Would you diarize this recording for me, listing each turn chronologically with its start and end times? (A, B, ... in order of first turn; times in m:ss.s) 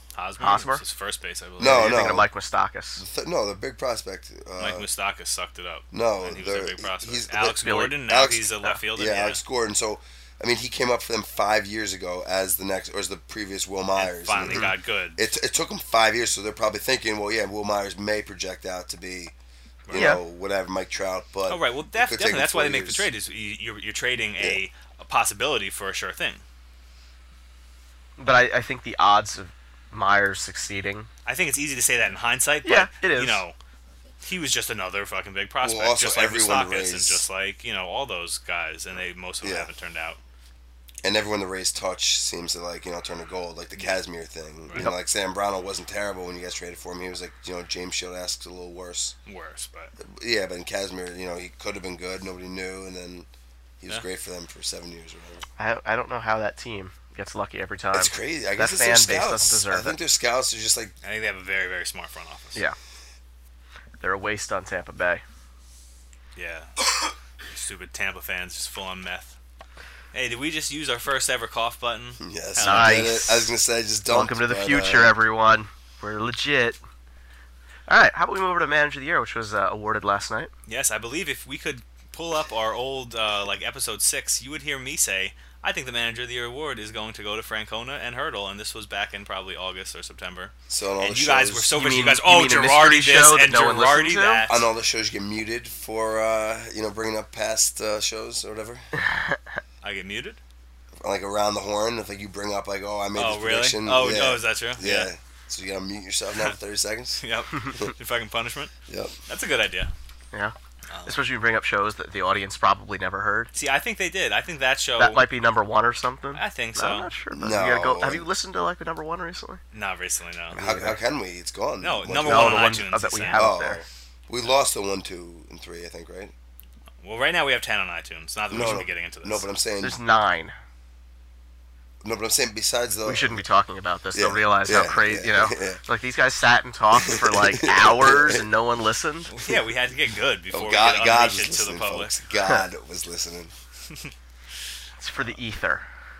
0:00.1-0:02.0 A
0:00.4-0:00.8 B
0:01.6-0:02.3 C
0:01.6-0:03.0 B
0:03.0-0:04.9 C
0:04.6-0:09.4 A
0:05.9-0:19.3 C
0:07.6-0:08.0 B
0:14.0-0:15.2 A
0:14.4-0:14.7 B
0:19.9-0:20.1 A
0:19.9-0:23.1 C
0:19.9-0:20.2 B
0:21.5-0:26.4 A
0:28.2-0:31.1 B
0:31.2-0:33.6 A
0:32.6-0:33.4 B
0:34.2-0:40.2 A
0:35.6-0:37.2 C
0:39.4-0:39.7 C
0:41.0-0:49.1 C
0:49.2-0:49.9 A
0:50.0-0:53.3 C
0:53.8-0:55.4 C
0:55.6-1:00.0 B
0:57.9-1:00.9 C
1:01.0-1:02.6 A
1:04.0-1:05.2 B
1:06.4-1:06.9 A
1:07.4-1:09.4 A
1:10.1-1:13.2 A
1:12.2-1:15.1 C
1:12.6-1:13.5 B
1:14.1-1:16.8 B
1:17.9-1:20.5 B
1:20.7-1:34.7 A
1:30.7-1:31.8 C
1:31.7-1:34.4 B
1:34.5-1:38.9 C
1:38.9-1:39.6 B
1:39.8-1:40.4 A
1:41.0-1:47.2 C
1:43.1-1:45.1 A
1:47.2-1:48.7 A
1:48.9-1:49.2 C
1:49.3-1:49.9 A
1:50.9-1:51.2 A
1:51.0-1:53.5 B
1:53.5-1:55.2 A
1:55.0-1:59.6 B
1:56.3-1:57.1 A
1:57.3-1:58.3 C
1:59.7-2:00.6 A
2:00.5-2:01.0 B
2:00.5-2:02.7 C
2:01.8-2:03.4 A
2:02.2-2:03.8 B
2:03.3-2:06.3 C
2:07.0-2:09.5 A
2:08.5-2:10.0 C
2:09.8-2:10.5 B
2:12.0-2:13.4 C
2:13.0-2:19.3 B
2:14.1-2:15.8 C
2:16.9-2:18.4 C
2:19.3-2:22.1 A
2:20.5-2:23.5 C
2:25.0-2:25.8 B